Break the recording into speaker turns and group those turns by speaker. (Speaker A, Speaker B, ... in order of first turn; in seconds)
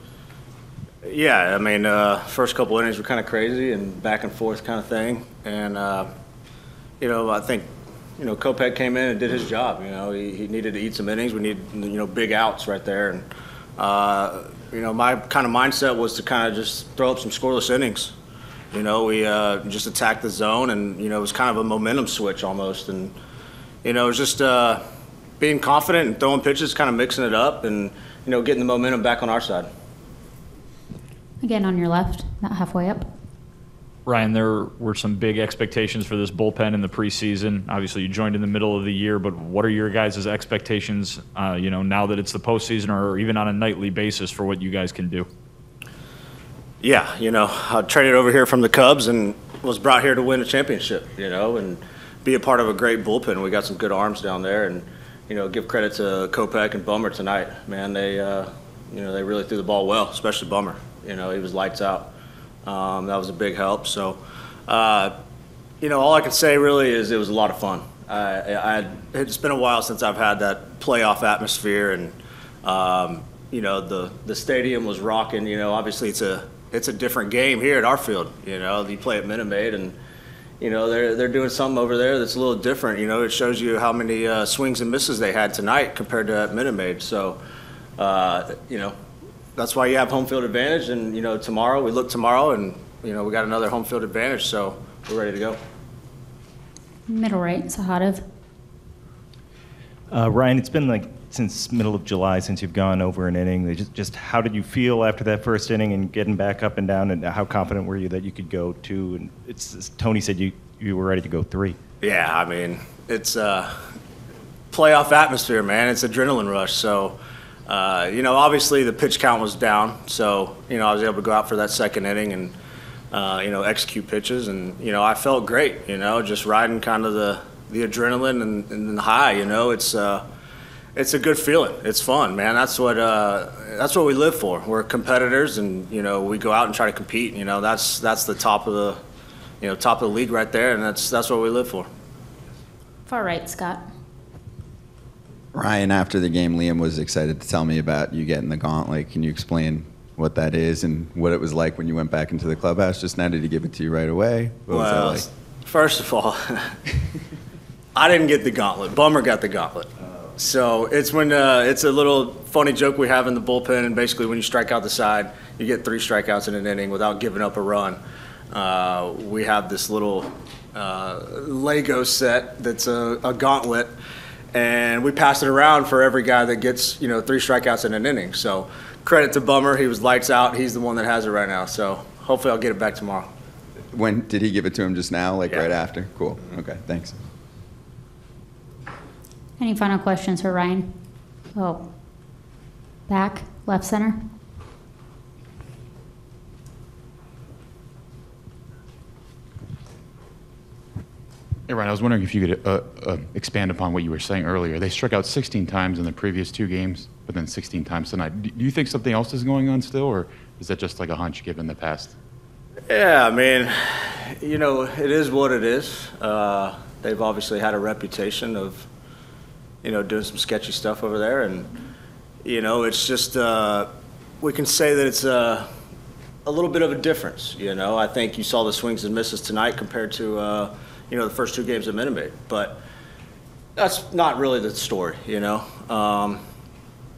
Speaker A: 1.0-6.1, 7.0-18.1, 18.7-23.1, 23.8-24.8, 25.4-29.7, 46.8-62.1, 62.6-65.2, 65.8-80.0, 80.6-87.4, 88.0-88.9, 89.6-95.6, 112.0-113.8, 114.7-122.6, 123.1-130.2, 131.0-139.0, 139.6-141.9, 154.7-156.8, 157.9-168.0, 168.5-173.9, 174.5-183.3, 212.9-218.9, 219.8-221.7, 222.4-223.9, 224.4-225.7, 226.4-232.8, 233.8-236.4
Speaker B: 31.4-33.1, 97.1-98.2, 143.1-143.9, 189.6-191.9, 193.1-194.4
Speaker C: 34.1-45.3
Speaker D: 100.1-111.8
Speaker E: 145.5-155.3, 183.9-187.2
Speaker F: 201.7-212.1